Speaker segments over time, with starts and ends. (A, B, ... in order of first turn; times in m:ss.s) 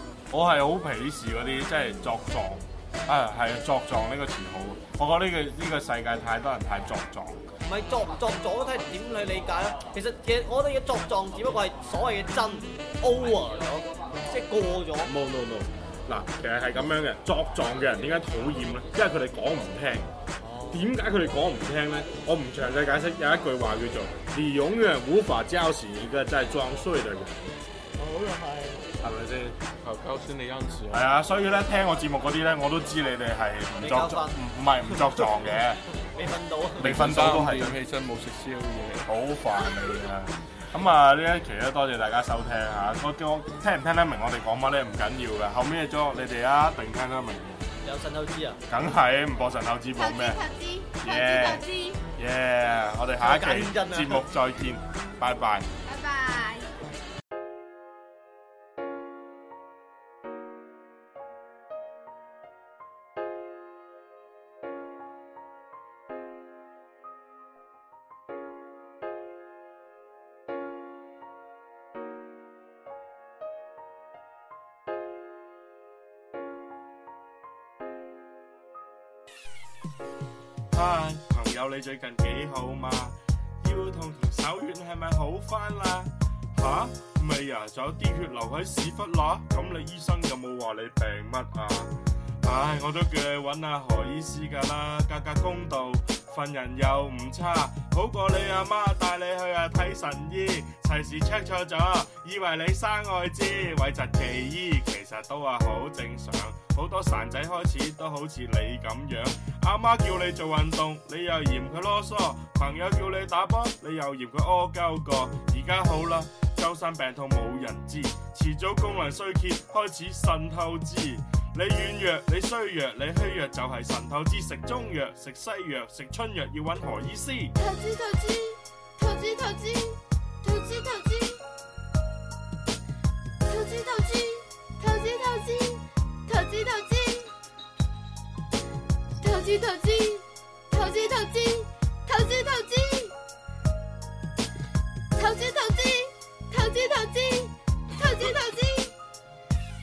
0:00.3-0:07.4 A
0:07.6-0:15.1 B
0:15.0-0:20.1 A
0:20.4-0:20.9 B
0:20.7-0:27.5 A
0:28.0-0:28.8 B
0:29.0-0:29.6 A
0:29.8-0:31.0 C
0:30.9-0:35.8 A
0:33.8-0:34.4 B
0:36.1-0:36.9 B
0:36.8-0:37.8 A
0:36.8-0:39.1 C
0:39.0-0:47.6 A
0:47.8-0:48.6 B
0:48.7-0:50.4 A
0:50.0-0:52.0 D
0:51.0-0:51.6 A
0:52.2-0:55.7 A
0:53.2-0:54.2 B
0:55.8-0:56.7 D
1:20.7-2:07.5 A
2:07.6-2:11.4 D
2:13.4-2:17.3 D
2:19.2-2:23.2 D
2:25.2-2:28.9 D
2:27.9-2:28.4 A